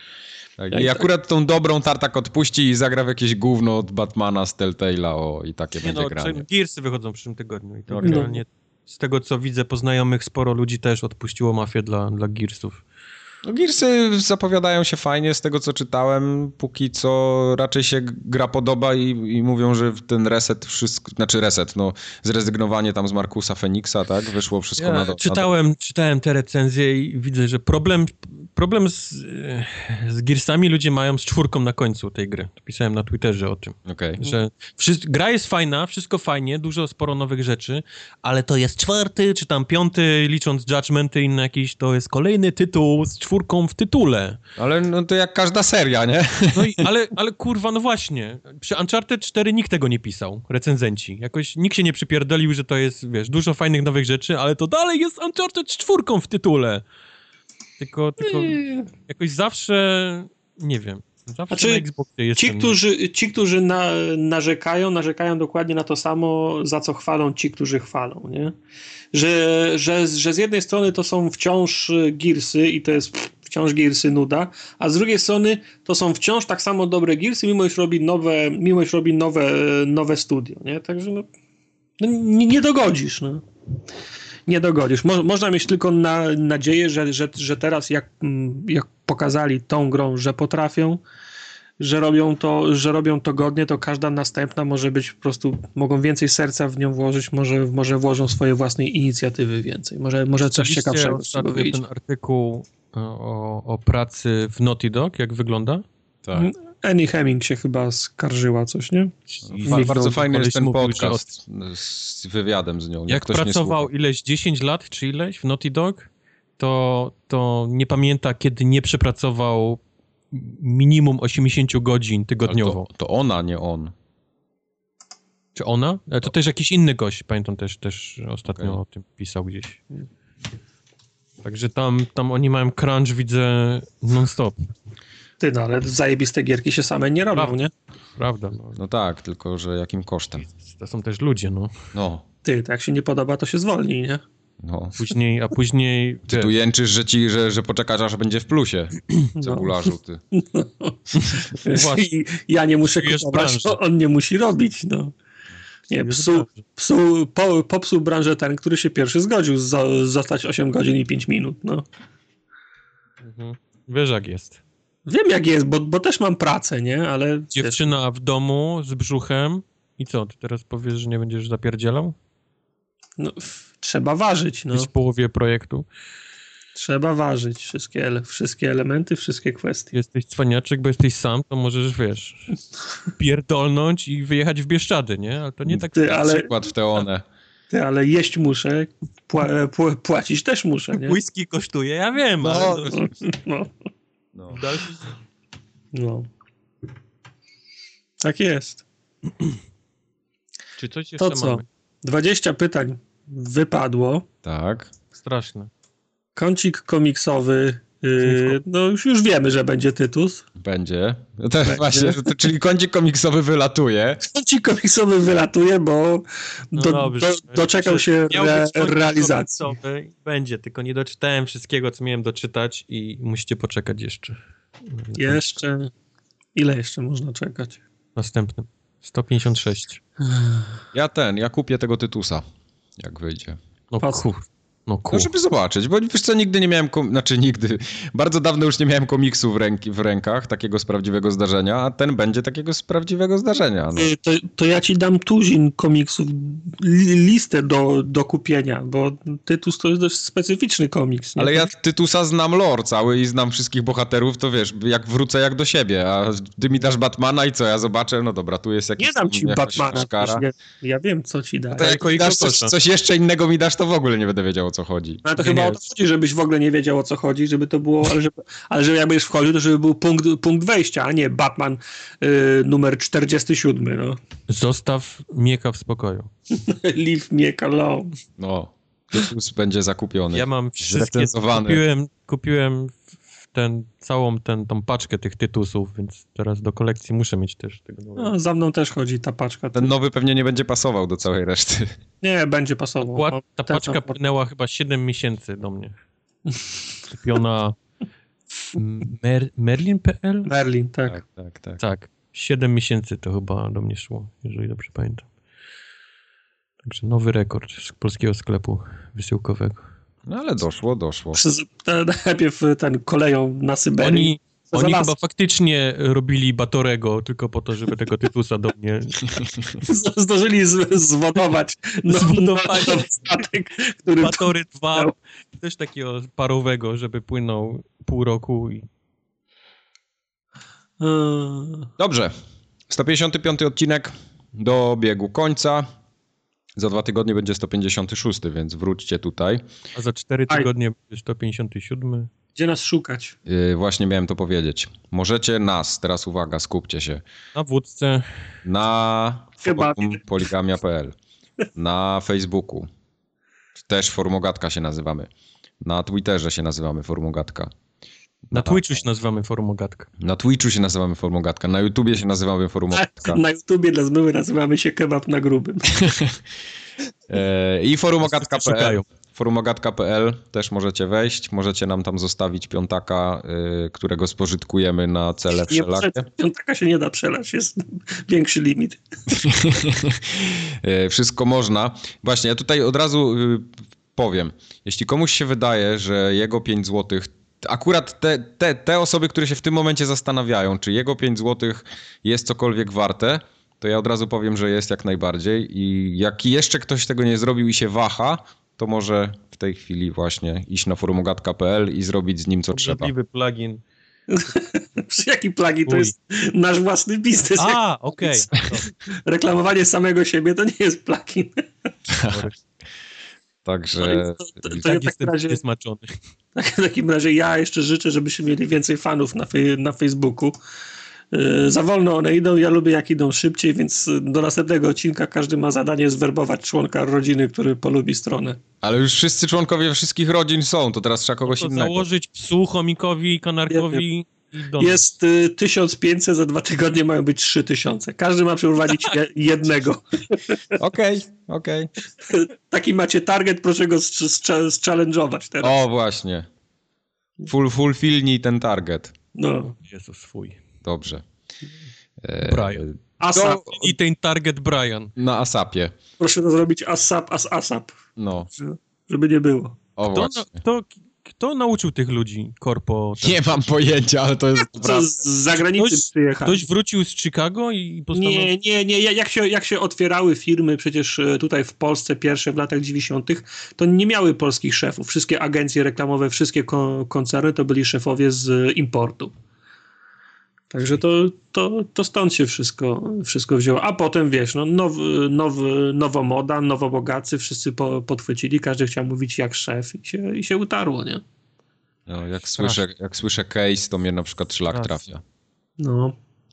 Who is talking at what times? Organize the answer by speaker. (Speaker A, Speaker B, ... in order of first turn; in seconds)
Speaker A: 0.6-6.5, 7.9-8.3, 13.4-25.5, 33.9-34.2, 44.6-46.9, 109.5-113.9, 122.5-123.9, 128.5-128.8, 138.8-140.5, 141.9-142.2, 144.6-145.0, 146.3-150.2, 185.7-187.2, 192.4-193.0, 194.3-194.6, 204.4-204.9, 210.6-214.2, 230.9-232.4, 233.0-233.6, 235.1-244.1, 251.4-260.4, 261.8-265.2, 278.4-281.8, 289.8-291.9, 301.1-301.8, 310.3-311.4, 332.0-332.3, 332.9-335.9, 336.8-339.6, 343.5-347.2, 348.6-351.2, 351.8-352.9, 353.8-355.3, 355.8-357.7, 358.5-359.0, 360.2-363.4, 365.9-366.4, 367.3-376.3, 379.4-403.1, 412.1-412.5, 413.6-414.8, 428.8-432.1, 440.8-441.9, 445.6-446.5, 447.5-449.1, 450.8-451.2, 452.2-453.6, 455.2-455.9, 458.2-458.5, 460.0-460.6, 463.2-465.1, 492.1-495.2
Speaker B: 0.7-1.1, 8.0-8.4, 58.2-58.9, 61.5-61.9, 62.4-68.5, 69.1-81.3, 82.0-83.4, 84.5-91.0, 91.8-101.8, 106.3-110.1, 135.4-137.7, 142.4-144.2, 149.4-149.7, 150.3-155.1, 155.9-161.8, 165.1-167.9, 173.2-174.9, 176.8-179.9, 185.9-186.5, 187.7-191.2, 192.9-193.7, 195.9-196.3, 198.2-198.8, 201.2-204.2, 206.4-210.4, 211.6-212.2, 214.3-219.7, 225.2-225.9, 226.6-227.8, 230.3-230.6, 234.0-234.3, 243.9-251.7, 259.0-262.2, 265.2-274.2, 276.5-278.1, 288.2-289.9, 292.2-294.2, 300.4-301.2, 311.3-315.1, 319.8-325.1, 331.0-331.9, 342.6-343.4, 349.6-350.2, 362.9-366.0, 375.7-379.4, 404.3-411.6, 414.0-415.6, 416.6-420.6, 421.3-428.6, 433.7-434.0, 434.8-440.6, 442.2-445.8, 449.4-449.8, 453.2-453.9, 456.2-458.0, 458.5-459.8, 464.7-466.7, 468.1-479.3, 480.7-491.2, 495.8-496.1
Speaker C: 5.8-12.8, 24.8-44.4, 46.5-56.8, 57.8-62.8, 100.6-105.8, 109.3-111.2, 113.1-119.8, 120.3-122.9, 125.6-129.9, 131.4-134.6, 138.2-138.8, 140.4-141.7, 145.0-146.5, 151.3-152.1, 152.9-153.8, 155.9-156.6, 163.2-164.6, 167.6-172.2, 174.7-175.9, 179.9-182.6, 183.1-186.2, 190.9-192.9, 194.5-195.2, 200.8-201.7, 205.1-205.7, 208.2-208.6, 216.8-225.6, 228.2-230.0, 233.9-235.3, 261.8-262.7, 265.4-265.8, 274.5-276.3, 280.3-288.3, 293.0-296.0, 297.1-297.8, 298.6-300.5, 301.8-305.3, 306.8-309.9, 314.0-319.4, 322.1-323.1, 324.1-328.9, 340.0-342.3, 347.6-348.3, 358.5-360.1, 368.2-369.1, 402.7-403.8, 405.9-406.1, 407.6-408.9, 414.8-416.2, 431.5-435.0, 449.9-450.6, 452.4-455.1, 460.1-463.4, 465.7-468.5, 494.7-495.0